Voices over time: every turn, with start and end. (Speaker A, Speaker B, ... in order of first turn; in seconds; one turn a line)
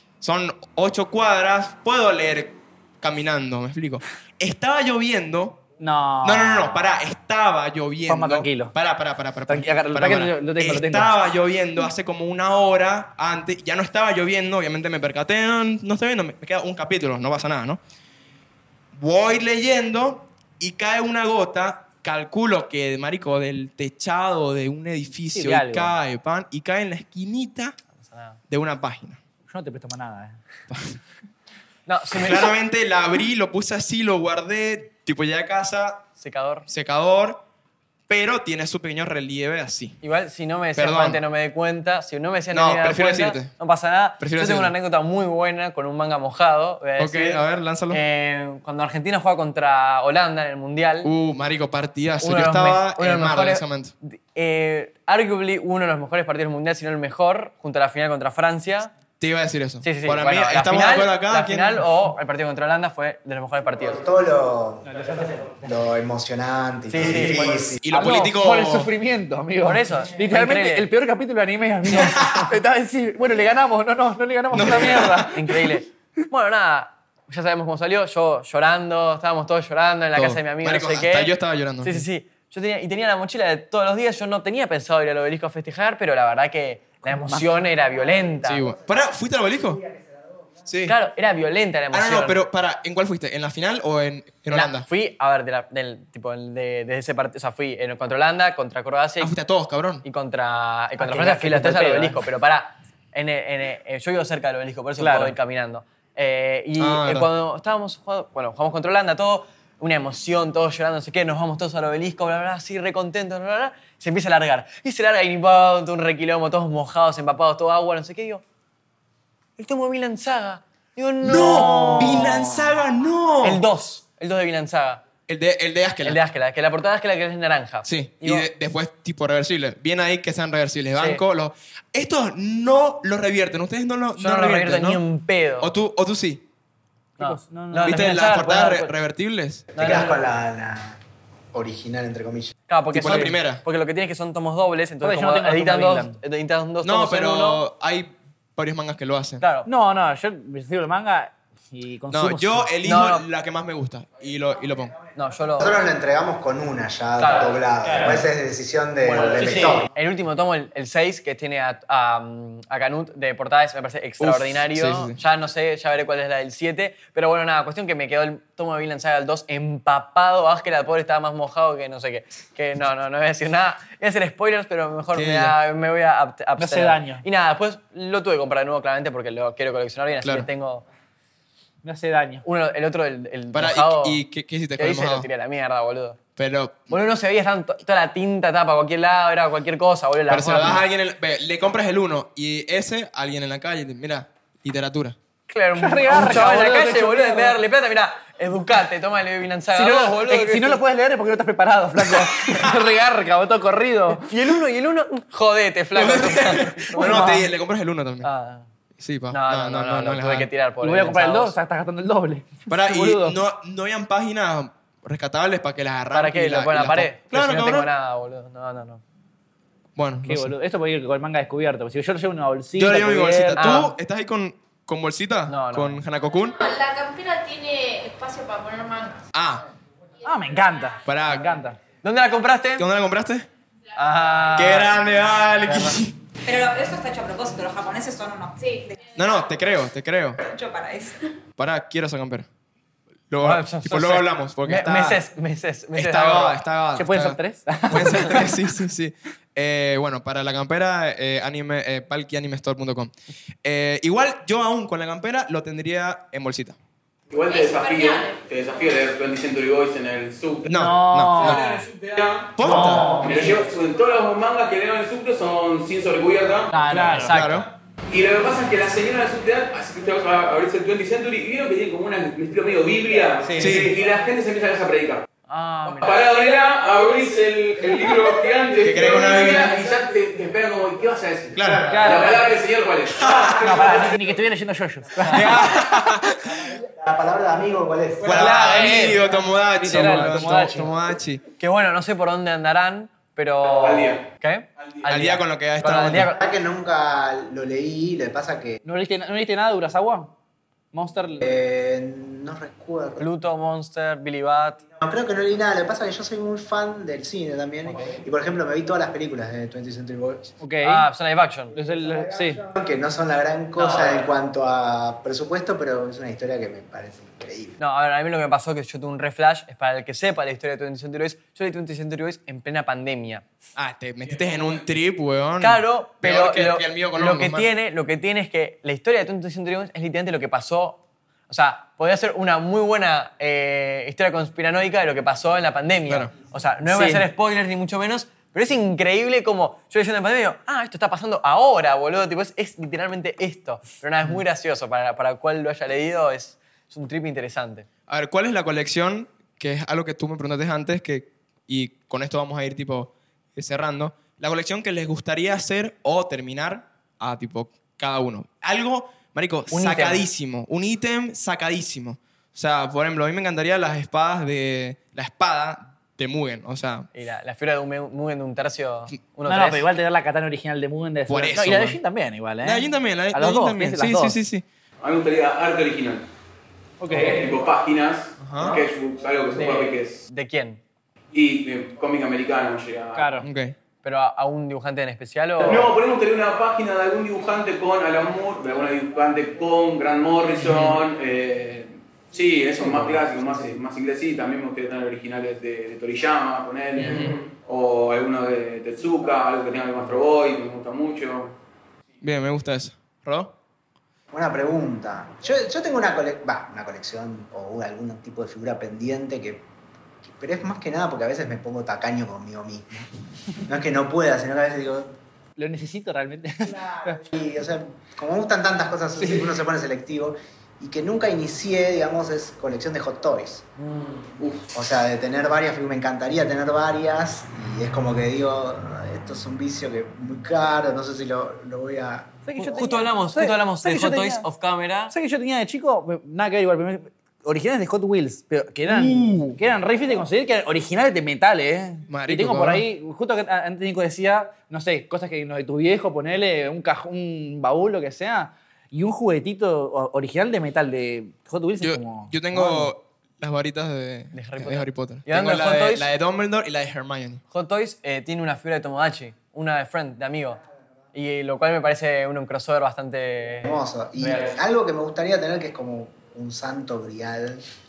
Speaker A: 0.2-5.6
Speaker B: 5.8-6.8
Speaker A: 6.2-17.8
Speaker B: 8.1-8.7
Speaker B: 9.5-11.1
Speaker A: 18.9-27.8
Speaker B: 25.3-25.9
Speaker C: 28.0-28.4
Speaker A: 28.5-29.2
Speaker B: 29.5-30.4
Speaker A: 30.7-31.0
Speaker C: 31.9-32.5
Speaker A: 32.1-36.0
Speaker C: 36.2-36.6
Speaker A: 36.7-37.4
Speaker A: 38.1-40.0
Speaker C: 40.0-51.1
Speaker A: 40.7-41.2
Speaker A: 42.5-43.5
Speaker A: 44.2-44.7
Speaker A: 47.0-48.0
Speaker A: 51.0-53.9
Speaker C: 52.2-58.9
Speaker A: 59.2-61.8
Speaker C: 59.8-64.0
Speaker D: 63.8-64.9
Speaker B: 64.8-65.6
Speaker D: 65.6-67.8
Speaker C: 66.9-67.6
Speaker A: 67.8-68.9
Speaker B: 67.9-75.8
Speaker C: 69.6-70.9
Speaker A: 74.5-75.3
Speaker C: 75.3-88.6
Speaker A: 80.1-82.0
Speaker B: 87.0-87.5
Speaker A: 88.4-89.8
Speaker A: 90.7-90.9
Speaker C: 90.9-92.4
Speaker A: 91.9-94.8
Speaker C: 94.5-99.3
Speaker A: 99.2-100.0
Speaker C: 100.0-118.4
Speaker B: 101.0-102.2
Speaker B: 105.0-105.3
Speaker A: 106.8-107.3
Speaker C: 119.6-122.4
Speaker A: 121.2-123.6
Speaker B: 121.4-122.4
Speaker C: 123.4-125.0
Speaker A: 125.3-126.2
Speaker C: 126.0-128.5
Speaker A: 127.8-135.0
Speaker C: 130.9-131.2
Speaker C: 134.2-135.7
Speaker A: 135.6-136.4
Speaker C: 137.2-138.7
Speaker B: 137.2-138.9
Speaker A: 137.8-139.6
Speaker C: 139.7-140.2
Speaker D: 139.8-141.0
Speaker D: 141.5-142.5
Speaker C: 142.7-147.6
Speaker A: 142.9-143.6
Speaker B: 145.0-146.2
Speaker A: 146.8-149.4
Speaker C: 149.4-149.7
Speaker B: 149.7-152.7
Speaker A: 152.1-155.0
Speaker C: 152.8-153.2
Speaker C: 155.1-155.8
Speaker D: 155.6-159.9
Speaker C: 157.2-157.6
Speaker C: 159.0-180.8
Speaker A: 164.2-165.2
Speaker A: 175.1-175.6
Speaker B: 176.6-177.2
Speaker B: 181.8-182.4
Speaker C: 182.4-184.2
Speaker A: 183.5-185.3
Speaker C: 184.8-186.2
Speaker A: 186.4-186.9
Speaker C: 186.9-190.8
Speaker A: 190.3-195.2
Speaker C: 195.5-200.8
Speaker B: 195.8-197.6
Speaker B: 199.7-204.3
Speaker C: 204.3-207.3
Speaker A: 205.9-208.3
Speaker B: 206.9-207.4
Speaker C: 208.2-208.7
Speaker A: 209.0-210.5
Speaker C: 209.3-211.6
Speaker B: 210.8-213.4
Speaker A: 212.7-217.9
Speaker C: 216.1-219.0
Speaker A: 219.9-220.5
Speaker B: 220.2-223.9
Speaker A: 222.8-226.6
Speaker C: 223.6-223.9
Speaker C: 225.5-226.0
Speaker E: 226.6-229.3
Speaker A: 229.3-229.6
Speaker B: 230.2-231.8
Speaker A: 231.0-231.5
Speaker C: 232.0-232.8
Speaker A: 232.8-233.5
Speaker C: 233.9-236.0
Speaker A: 234.5-236.1
Speaker F: 236.4-238.9
Speaker E: 238.6-238.9
Speaker A: 239.1-240.4
Speaker F: 240.4-241.3
Speaker A: 241.6-242.5
Speaker A: 243.3-245.2
Speaker C: 243.4-246.6
Speaker A: 245.9-253.1
Speaker B: 246.9-248.5
Speaker A: 253.6-256.8
Speaker G: 257.3-260.7
Speaker E: 257.4-258.4
Speaker A: 260.6-261.6
Speaker B: 260.7-261.9
Speaker G: 261.4-267.3
Speaker A: 262.5-263.1
Speaker B: 262.6-263.6
Speaker B: 266.7-267.3
Speaker C: 266.9-267.6
Speaker A: 267.2-267.7
Speaker G: 268.1-275.2
Speaker A: 273.6-273.9
Speaker C: 275.5-276.2
Speaker G: 275.9-284.2
Speaker A: 278.8-279.7
Speaker A: 281.6-282.0
Speaker B: 281.9-282.4
Speaker B: 283.5-285.8
Speaker A: 285.3-286.5
Speaker D: 286.5-288.8
Speaker A: 288.2-291.4
Speaker B: 288.3-290.9
Speaker C: 288.6-289.1
Speaker C: 291.6-296.4
Speaker G: 293.6-294.2
Speaker A: 295.1-296.3
Speaker D: 296.3-298.8
Speaker B: 298.8-300.3
Speaker B: 300.9-301.5
Speaker D: 301.4-303.2
Speaker C: 303.2-304.8
Speaker D: 305.0-310.5
Speaker B: 310.6-311.1
Speaker C: 310.8-311.8
Speaker B: 311.7-312.6
Speaker D: 312.4-317.8
Speaker C: 313.8-314.2
Speaker C: 317.8-323.4
Speaker A: 323.8-327.7
Speaker C: 325.6-347.9
Speaker B: 336.9-337.2
Speaker A: 348.1-367.1
Speaker C: 359.7-360.2
Speaker C: 367.1-369.9
Speaker B: 369.5-374.4
Speaker A: 371.3-372.0
Speaker A: 372.6-374.6
Speaker G: 375.0-376.3
Speaker B: 377.0-377.5
Speaker G: 377.1-380.2
Speaker A: 378.4-378.8
Speaker C: 379.6-380.8
Speaker G: 381.3-383.3
Speaker B: 383.1-383.4
Speaker A: 383.4-383.8
Speaker C: 384.0-385.9
Speaker G: 385.6-401.5
Speaker A: 390.6-391.0
Speaker A: 397.1-397.3
Speaker A: 402.2-403.5
Speaker D: 404.3-409.7
Speaker D: 410.2-415.1
Speaker B: 415.6-417.2
Speaker D: 416.9-423.7
Speaker B: 419.2-419.5
Speaker G: 424.0-424.6
Speaker D: 424.7-432.3
Speaker B: 432.4-434.4
Speaker C: 432.6-435.1
Speaker B: 435.1-452.9
Speaker A: 442.1-442.8
Speaker A: 451.8-457.4
Speaker C: 454.3-456.1
Speaker C: 457.5-460.6
Speaker C: 461.1-463.6
Speaker D: 463.6-467.6